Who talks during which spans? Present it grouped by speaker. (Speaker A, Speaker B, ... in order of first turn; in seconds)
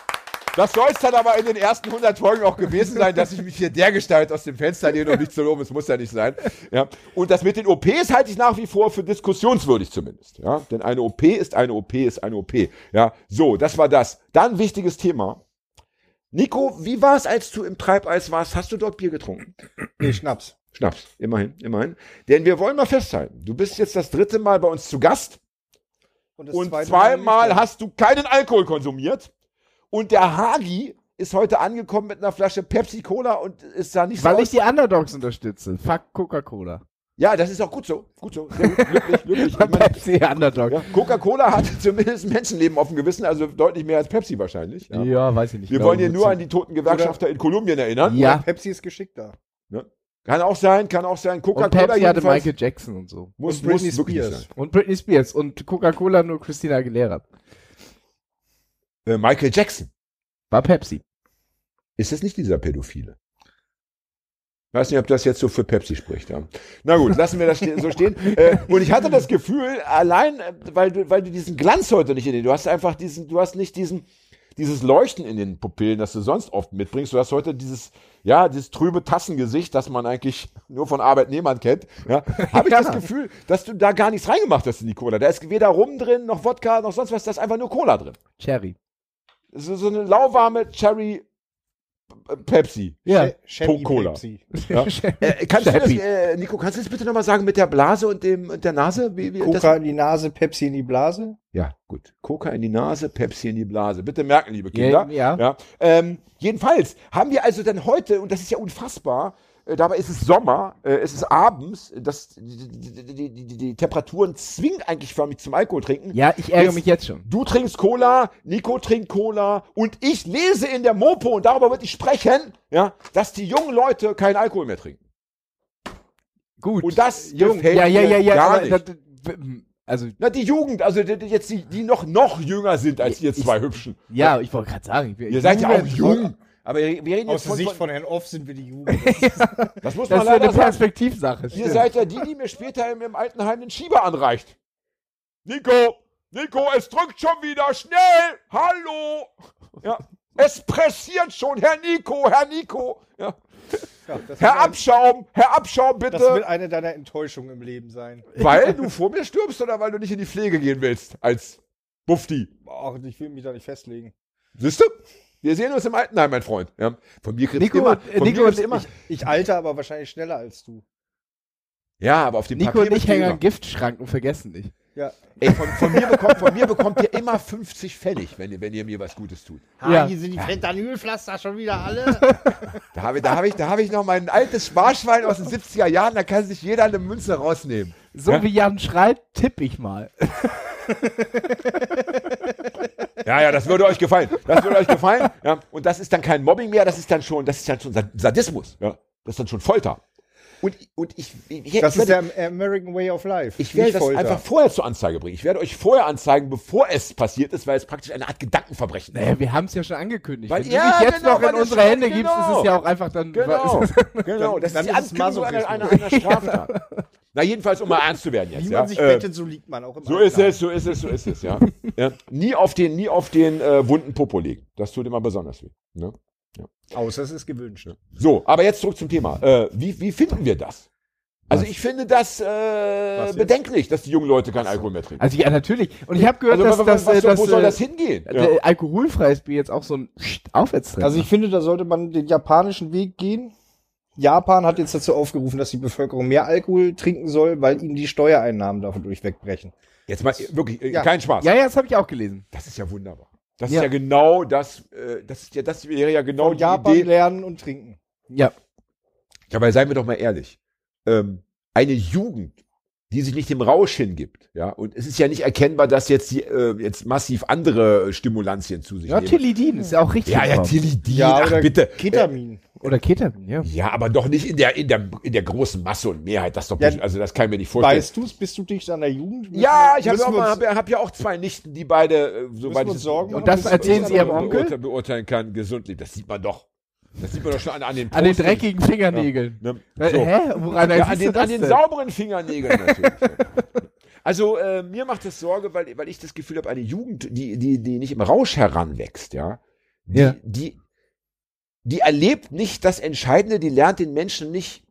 Speaker A: 0.5-15.4, 16.3-19.6, 20.7-25.4, 26.5-29.3, 29.9-34.6, 37.2-40.0, 40.7-45.1, 45.7-48.4, 49.7-52.5, 53.4-54.5, 59.1-59.9, 62.0-63.2, 64.7-88.2, 89.5-91.2, 92.2-93.0, 93.6-99.7, 101.5-125.0, 126.8-128.8, 130.2-134.3, 135.3-137.8, 139.8-140.8, 141.5-144.6, 145.4-153.9, 154.4-156.4, 158.3-162.5, 164.6-168.9, 172.0-173.4, 175.4-179.8, 182.9-188.4, 193.2-200.0, 200.6-202.2, 203.6-209.3, 210.5-212.7, 213.3-216.8, 217.3-219.3, 220.1-226.7, 227.9-230.9, 231.5-235.2, 236.2-238.5, 250.1-251.5, 252.5-257.1, 259.5-262.6, 263.1-269.4, 270.3-272.3, 273.6-278.1, 279.5-286.7, 287.2-300.8, 301.9-304.8
Speaker B: 20.0-20.6, 26.4-27.7, 46.8-47.2, 48.1-49.4, 53.4-54.5, 93.1-94.5, 99.4-101.4, 137.3-139.7, 154.1-154.8, 156.1-158.3, 162.7-164.1, 169.0-170.8, 174.9-175.5, 179.8-182.7, 201.8-204.4, 214.4-216.1, 218.6-220.6, 226.9-227.9, 233.2-233.5, 241.0-243.5, 244.2-249.7, 256.4-258.0, 271.1-272.8, 277.8-280.6, 282.6-284.6
Speaker C: 34.2-36.8, 38.5-40.9, 44.9-46.4, 48.1-48.4, 51.5-53.3, 54.6-57.2, 60.5-61.0, 82.4-83.0, 88.4-88.8, 93.1-93.3, 94.5-96.0, 104.7-105.4, 116.1-117.2, 126.6-130.2, 133.0-136.2, 138.9-141.9, 158.4-158.7, 167.6-168.9, 172.6-174.7, 175.5-176.6, 179.8-180.1, 182.2-182.6, 188.1-192.2, 209.1-214.3, 215.9-217.0, 235.2-241.3, 251.4-252.4, 269.1-270.8, 272.8-273.7, 283.3-284.8, 288.1-291.8, 292.7-293.6